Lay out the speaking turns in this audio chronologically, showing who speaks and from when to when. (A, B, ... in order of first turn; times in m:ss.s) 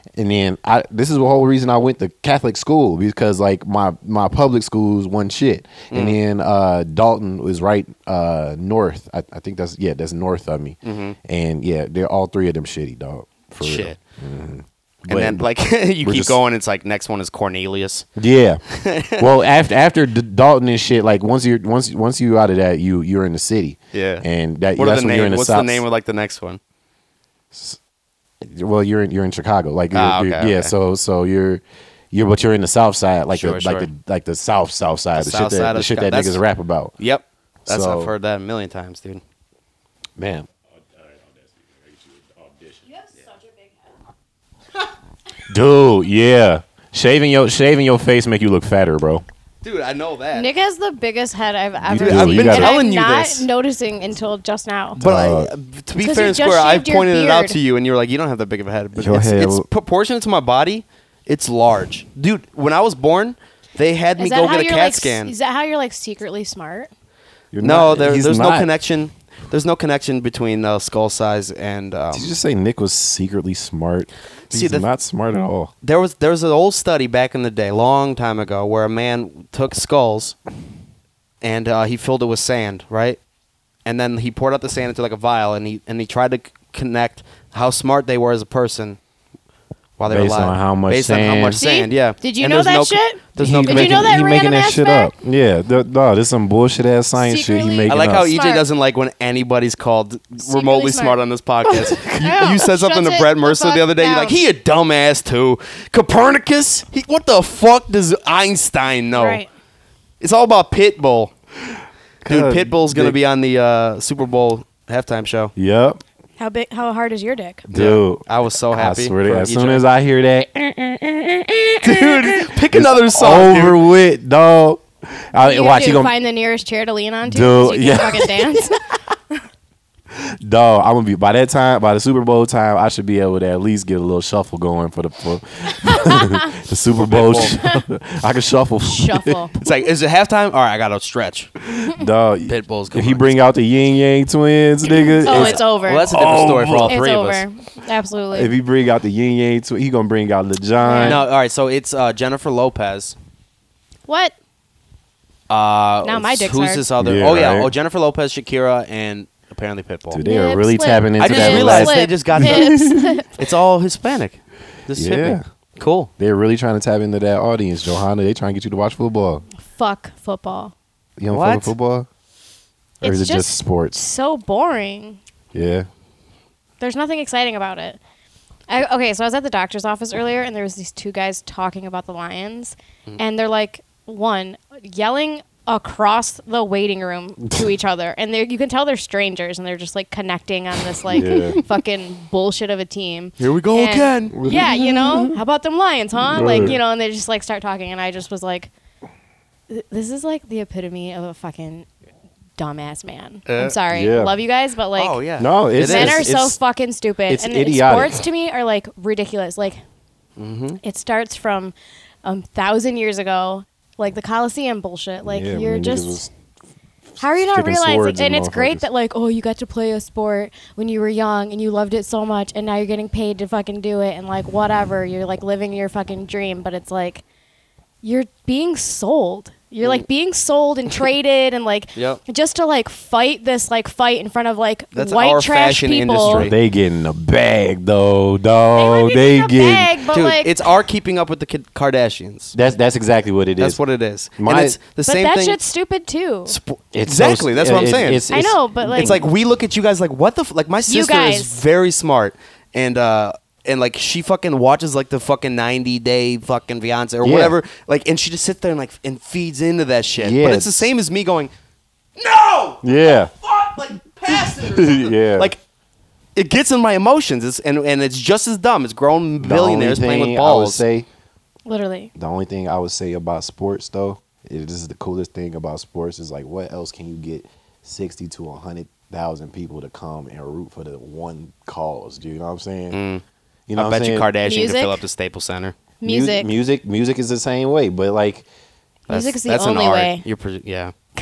0:00.2-0:15.4 A
0:05.9-0:06.2 B
0:10.8-0:11.2 B
0:13.6-0:14.0 B
0:15.1-0:18.1 B
0:16.0-0:16.4 A
0:18.2-0:18.6 A
0:18.7-0:19.3 B
0:19.2-0:25.8 A
0:23.9-0:26.6 B
0:27.5-0:27.8 A
0:28.4-0:37.0 A
0:29.9-0:30.7 B
0:33.3-0:33.9 B
0:35.2-0:36.4 B
0:37.0-0:39.2 B
0:37.7-0:38.1 A
0:40.2-0:40.5 A
0:41.1-0:42.8 A
0:42.9-0:43.9 C
0:45.5-0:49.2 A
0:49.6-0:50.5 B
0:50.3-0:55.0 C
0:51.8-0:52.8 A
0:51.9-0:53.5 B
0:55.0-0:55.5 A
0:55.0-1:05.3 B
0:56.0-0:57.6 C
0:59.0-0:59.7 A
1:04.2-1:06.9 C
1:07.5-1:08.7 A
1:07.6-1:12.3 B
1:12.1-1:15.7 A
1:14.5-1:14.9 B
1:15.8-1:20.4 B
1:21.4-1:23.2 B
1:23.8-1:29.0 B
1:30.0-1:34.2 B
1:30.1-1:31.6 A
1:31.6-1:35.1 C
1:33.4-1:38.3 A
1:37.2-1:38.6 C
1:37.9-1:49.4 B
1:40.4-1:41.2 C
1:41.9-1:42.4 A
1:42.0-1:44.4 C
1:49.1-1:49.5 C
1:50.2-1:51.3 B
1:52.2-1:53.2 A
1:52.3-1:55.5 B
1:55.6-1:56.0 A
1:56.4-1:57.7 C
1:57.7-2:06.1 A
1:57.7-1:59.8 B
2:01.8-2:03.8 B
2:05.4-2:09.4 C
2:07.2-2:08.8 A
2:10.1-2:19.5 A
2:15.9-2:16.5 C
2:17.1-2:17.6 B
2:17.5-2:17.8 C
2:18.8-2:19.5 C
2:19.6-2:21.5 B
2:21.9-2:27.0 A
2:22.5-2:23.4 B
2:25.2-2:26.3 C
2:25.2-2:27.4 B
2:26.8-2:28.6 C
2:28.3-2:31.2 A
2:30.8-2:31.2 C
2:31.0-2:33.2 B
2:34.1-2:34.4 C
2:35.5-2:40.2 B
2:36.0-2:36.9 C
2:37.0-2:37.7 A
2:40.1-2:43.2 A
2:40.2-2:43.3 C
2:41.2-2:46.1 B
2:44.9-2:45.4 A
2:46.2-2:49.4 A
2:49.7-2:50.7 C
2:51.2-2:52.1 A
2:51.3-2:51.7 B
2:53.0-2:54.0 A
2:53.0-2:55.2 C
2:55.5-2:55.9 A
2:56.8-2:58.0 C
2:58.7-3:18.7 C
3:11.1-3:11.6 A
3:13.4-3:14.5 B
3:14.3-3:15.4 A
3:16.2-3:16.8 A
3:16.4-3:16.7 B
3:19.7-3:21.9 C
3:22.6-3:29.8 C
3:23.5-3:23.8 B
3:23.9-3:24.4 A
3:25.0-3:26.3 B
3:25.4-3:26.6 A
3:27.3-3:28.2 A
3:30.4-3:30.8 B
3:30.8-3:36.2 C
3:35.3-3:36.3 A
3:37.2-3:47.2 C
3:37.2-3:38.9 A
3:48.0-3:56.5 C
3:52.0-3:52.2 B
3:54.9-3:56.6 B
3:56.2-4:00.1 A
3:58.8-4:00.6 C
4:00.1-4:02.6 B
4:02.5-4:03.8 A
4:03.6-4:05.6 B
4:04.4-4:04.8 A
4:05.0-4:06.6 C
4:06.5-4:21.5 B
4:06.9-4:09.2 A
4:08.3-4:09.2 C
4:10.9-4:11.6 C
4:17.2-4:17.6 A
4:20.2-4:20.9 A
4:22.2-4:25.6 B
4:22.8-4:23.3 A
4:24.6-4:25.5 A
4:26.4-4:30.8 B
4:29.4-4:31.1 A
4:31.7-4:32.1 C
4:32.2-4:43.0 A
4:42.9-4:43.2 B
4:43.7-4:44.3 A
4:43.8-4:45.8 B
4:44.4-4:45.0 C
4:46.0-4:46.5 C
4:46.0-4:48.5 A
4:49.1-4:50.2 C
4:49.1-4:50.9 B